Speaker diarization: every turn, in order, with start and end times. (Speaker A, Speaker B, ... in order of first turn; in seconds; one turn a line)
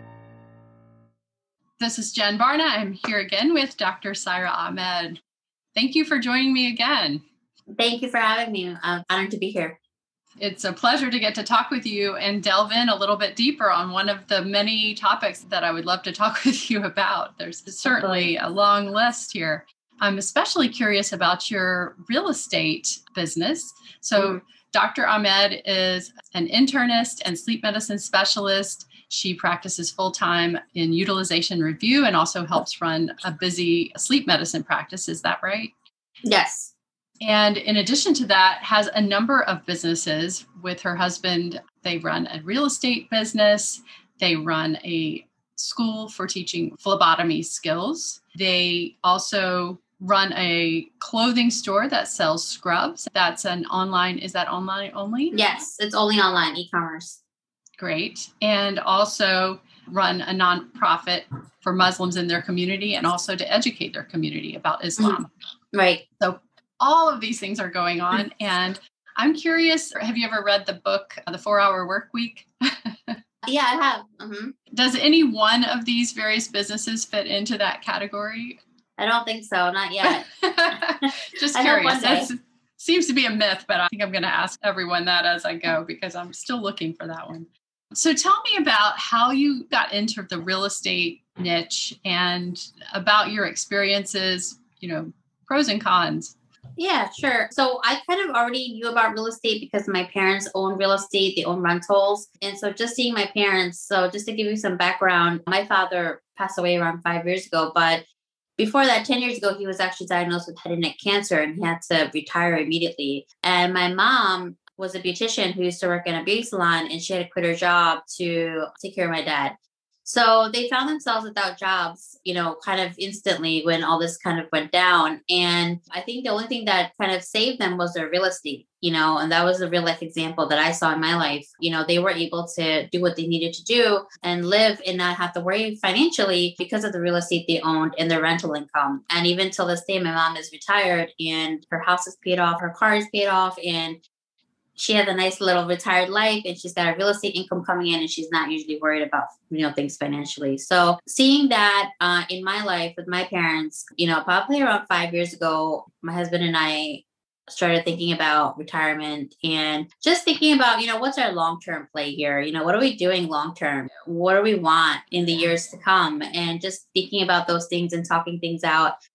Speaker A: 1.8-5.2
Speaker A: 5.8-7.2
Speaker B: 7.8-9.8
Speaker A: 10.4-35.7
Speaker B: 17.8-18.3
Speaker B: 36.2-36.7
Speaker A: 37.2-55.4
Speaker B: 55.3-57.2
Speaker A: 57.8-65.3
Speaker B: 65.7-66.0
Speaker A: 66.2-73.2
Speaker B: 73.5-74.5
Speaker A: 74.7-78.6
Speaker B: 79.0-80.2
Speaker A: 80.0-96.3
Speaker B: 81.5-82.3
Speaker B: 96.8-108.0
Speaker B: 108.6-144.0
Speaker B: 144.8-168.9